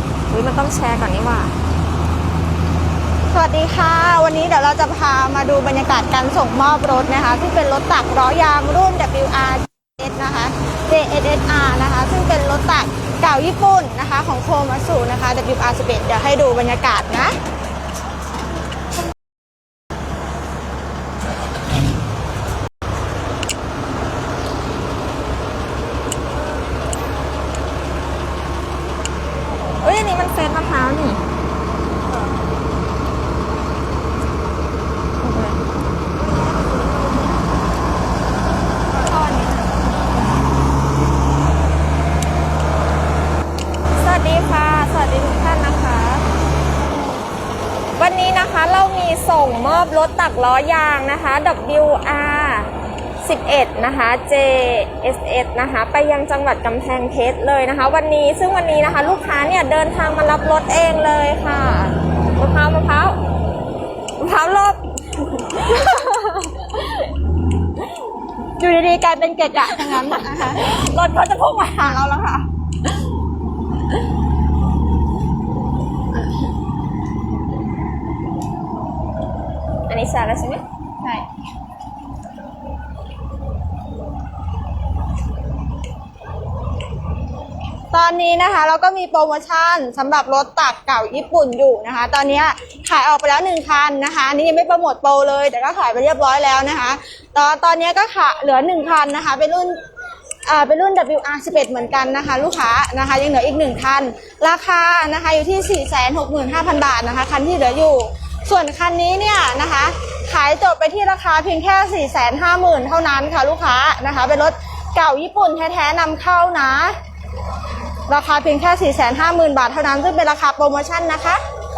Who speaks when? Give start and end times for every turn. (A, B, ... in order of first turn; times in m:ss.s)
0:00.3-0:01.6 A
0:03.3-0:17.3 B
0:29.8-0:31.2 A
0:35.2-0:35.6 A
0:38.9-0:40.1 A
0:44.0-0:46.3 A
0:48.0-0:52.7 A
0:53.2-1:03.2 A
1:04.2-1:06.9 A
1:08.6-1:10.7 B
1:10.0-1:11.9 A
1:11.8-1:12.5 B
1:19.9-1:20.6 A
1:27.9-1:39.8 B
1:40.4-1:57.0 B
1:58.1-2:01.4 B